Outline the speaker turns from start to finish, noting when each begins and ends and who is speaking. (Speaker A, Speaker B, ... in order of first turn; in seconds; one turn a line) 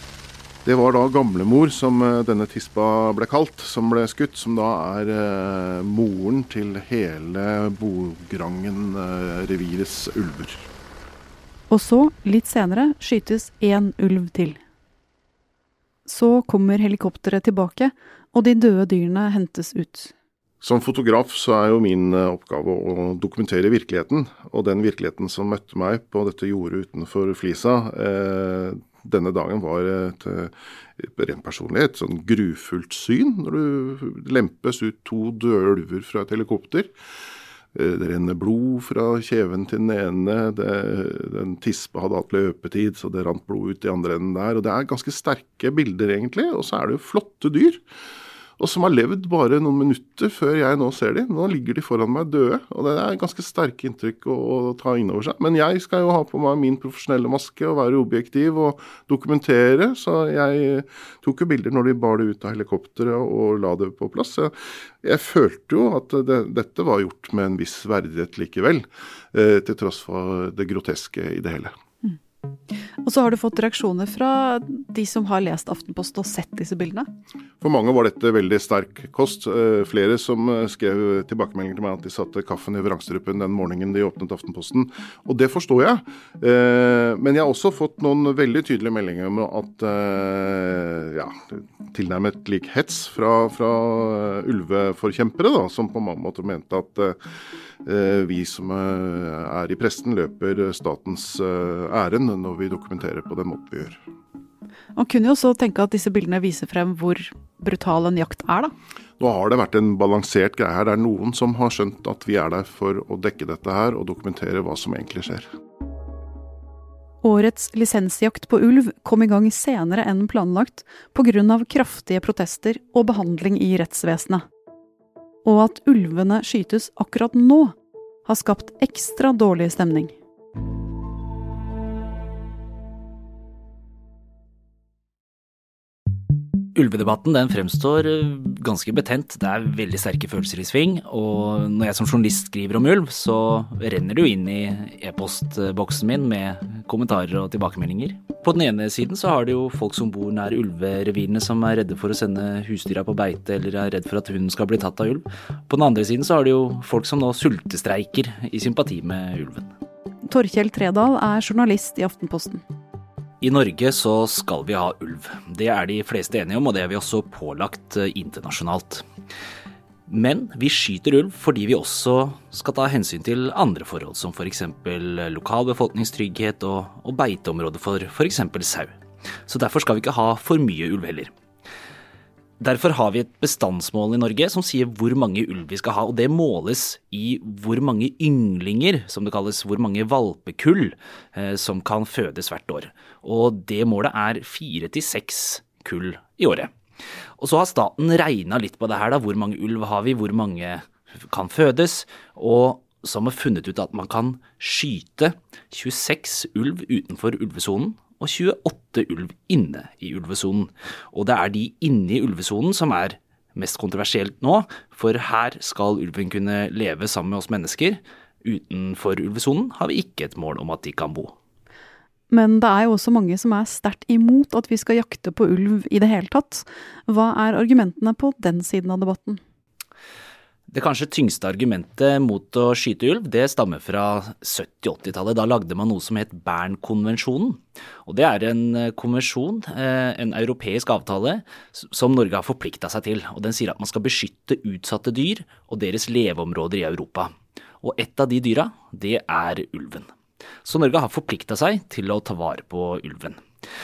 Speaker A: 0.6-10.6
Speaker B: 11.7-14.6
Speaker B: 16.1-20.1
Speaker A: 20.6-36.9
Speaker A: 37.7-47.8
Speaker A: 48.6-71.7
Speaker B: 73.0-77.1
Speaker A: 77.6-97.2
Speaker A: 97.8-104.0
Speaker B: 105.0-108.7
Speaker A: 109.2-115.5
Speaker B: 117.2-124.4
Speaker B: 125.4-130.1
Speaker C: 136.7-159.7
Speaker B: 160.3-162.6
Speaker C: 163.4-169.0
Speaker C: 170.1-178.9
Speaker C: 179.5-181.3
Speaker C: 182.6-196.7
Speaker C: 197.4-221.3
Speaker B: 222.3-229.4
Speaker C: 230.7-250.1
Speaker C: 250.6-253.4